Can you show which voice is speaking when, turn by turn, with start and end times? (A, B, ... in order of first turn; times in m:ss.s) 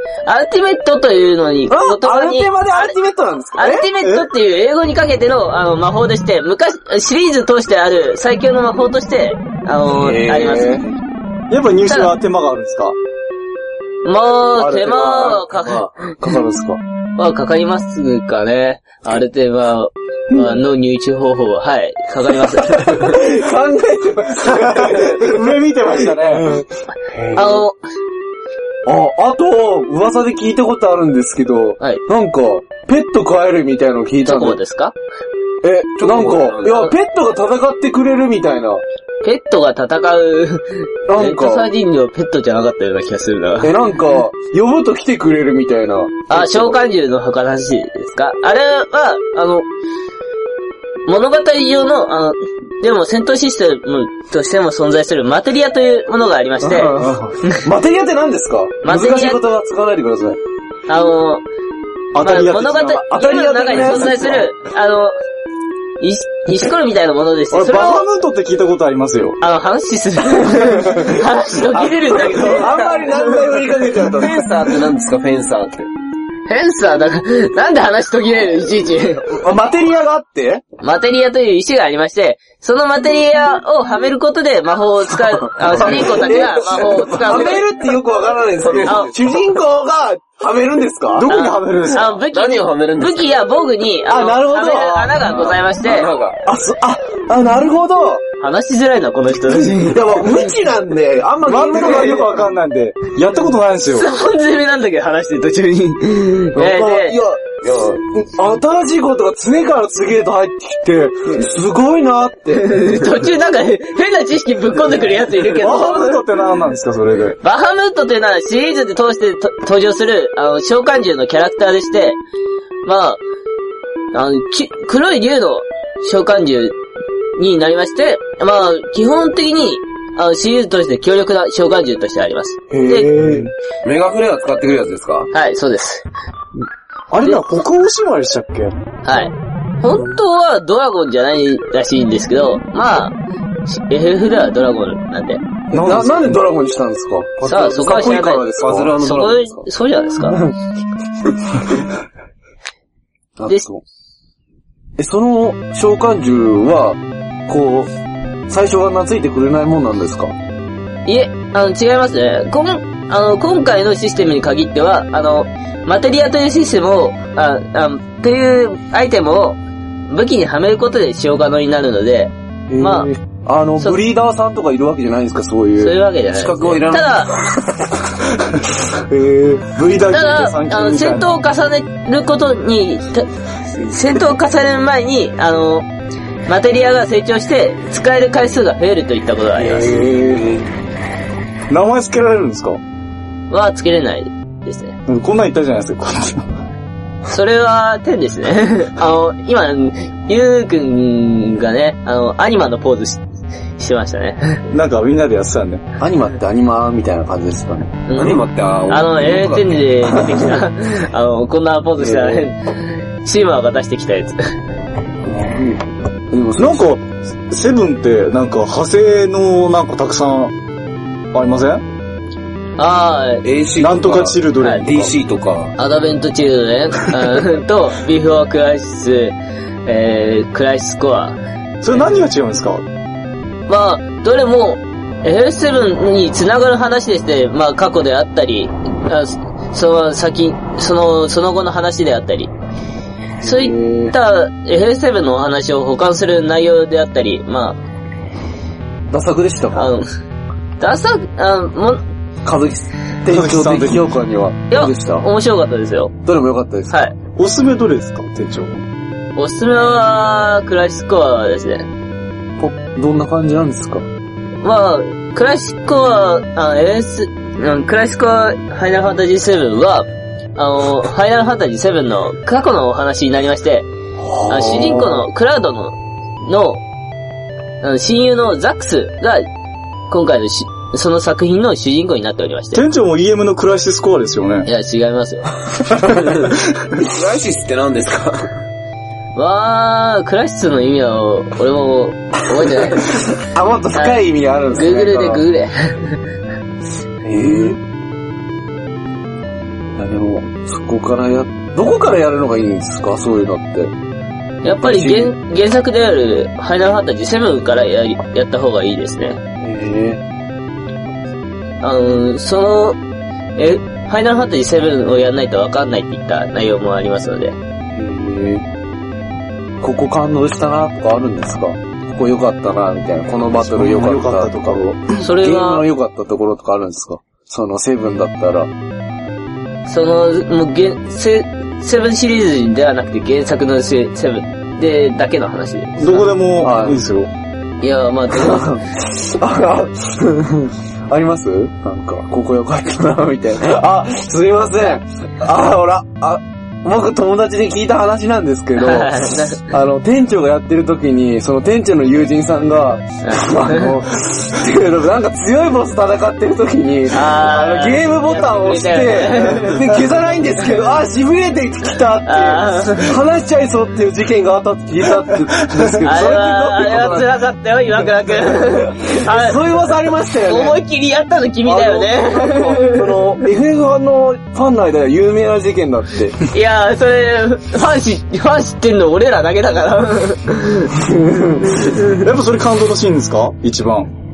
0:00.2-0:03.0 A
0:01.7-0:03.9 B
0:03.6-0:10.8 A
0:04.0-0:04.3 C
0:09.8-0:10.9 B
0:11.5-0:13.0 C
0:11.9-0:12.1 A
0:14.0-0:15.9 A
0:14.5-0:16.8 B
0:17.2-0:23.2 A
0:20.3-0:20.6 B
0:22.6-0:27.6 B
0:24.4-0:26.6 C
0:27.3-0:27.8 A
0:28.8-0:34.6 B
0:34.2-0:34.9 A
0:35.6-0:38.8 B
0:36.0-0:36.9 D
0:39.2-0:43.8 A
0:41.1-0:41.7 B
0:43.6-0:46.8 B
0:46.3-0:49.7 A
0:51.1-0:57.6 A
0:56.6-1:00.4 B
0:57.0-0:57.4 C
0:58.8-0:59.4 A
1:00.9-1:01.4 A
1:02.1-1:03.0 C
1:02.2-1:05.1 A
1:02.9-1:04.5 B
1:06.0-1:08.0 A
1:07.5-1:09.4 C
1:09.4-1:12.8 A
1:10.4-1:11.2 B
1:11.9-1:14.5 B
1:12.2-1:15.9 D
1:16.5-1:19.4 A
1:19.3-1:20.6 B
1:20.8-1:27.6 A
1:25.6-1:31.3 B
1:28.6-1:29.3 D
1:28.8-1:29.1 A
1:31.1-1:32.2 C
1:31.3-1:36.1 A
1:32.3-1:33.4 D
1:34.1-1:35.6 B
1:35.2-1:36.4 D
1:36.4-1:38.2 B
1:38.4-1:40.4 A
1:39.6-1:42.5 B
1:41.4-1:44.1 C
1:43.9-1:47.2 A
1:46.5-1:53.0 B
1:52.5-1:56.2 A
1:55.5-1:57.4 C
1:57.4-2:02.2 A
2:02.8-2:03.2 A
2:04.1-2:06.8 A
2:07.4-2:13.1 A
2:12.7-2:13.5 B
2:13.2-2:13.5 C
2:13.8-2:15.3 D
2:15.3-2:16.0 A
2:17.1-2:18.8 C
2:19.0-2:25.4 A
2:25.7-2:29.1 B
2:25.7-2:26.4 C
2:27.4-2:30.4 A
2:28.6-2:29.6 D
2:30.2-2:30.5 B
2:33.4-2:33.8 B
2:35.0-2:37.9 B
2:38.5-2:40.3 B
2:41.0-2:53.1 A
2:52.7-2:56.0 B
2:55.8-2:57.4 A
2:56.3-2:57.3 D
2:58.9-2:59.8 B
2:59.7-3:01.3 C
3:00.1-3:05.9 A
3:06.5-3:10.1 A
3:09.6-3:10.6 D
3:09.8-3:10.5 B
3:11.7-3:12.8 C
3:13.5-3:15.0 A
3:15.0-3:16.5 C
3:17.3-3:23.2 A
3:23.8-3:24.6 A
3:24.7-3:25.8 C
3:26.0-3:28.0 B
3:28.1-3:34.5 A
3:28.2-3:29.8 D
3:30.0-3:30.5 B
3:32.0-3:32.5 B
3:35.2-3:36.9 B
3:36.6-3:40.5 C
3:41.3-3:41.8 C
3:42.8-3:43.4 A
3:43.4-3:45.7 D
3:43.8-3:45.1 C
3:45.8-3:51.4 A
3:51.8-3:52.8 C
3:53.7-4:02.5 A
4:03.4-4:07.8 A
4:03.4-4:04.1 B
4:09.1-4:09.9 B
4:09.7-4:10.1 A
4:10.8-4:12.0 A
4:12.4-4:15.3 B
4:13.3-4:14.1 C
4:14.7-4:16.2 A
4:16.2-4:17.0 B
4:16.9-4:17.1 A
4:17.3-4:18.8 C
4:19.4-4:21.9 A
4:22.6-4:24.0 B
4:24.6-4:33.9 A
4:34.2-4:35.3 B
4:34.4-4:36.8 A
4:37.8-4:39.5 A
4:40.1-4:42.8 A
4:42.7-4:44.7 C
4:44.6-4:45.5 A
4:46.9-4:48.5 D
4:49.3-4:53.2 A
4:52.5-4:55.4 B
4:53.9-4:56.2 A
4:57.2-4:57.8 B
5:00.0-5:03.9 B
5:04.6-5:09.4 A
5:04.7-5:05.3 B
5:09.6-5:10.2 B
5:11.8-5:13.0 A
5:13.6-5:17.6 A
5:17.9-5:18.6 B
5:19.8-5:28.7 B
5:23.5-5:25.2 C
5:25.2-5:25.8 A
5:29.8-5:36.3 A
5:36.0-5:37.3 C
5:36.6-5:37.0 B
5:37.8-5:38.8 A
5:38.3-6:07.3 B
5:48.8-5:49.6 A
5:53.2-5:53.9 A
5:57.1-6:00.0 A
6:02.2-6:03.2 A
6:06.0-6:09.7 A
6:08.5-6:10.8 B
6:10.4-6:13.3 A
6:11.6-6:16.4 B
6:16.5-6:20.9 A
6:20.9-6:22.0 B
6:22.0-6:24.1 C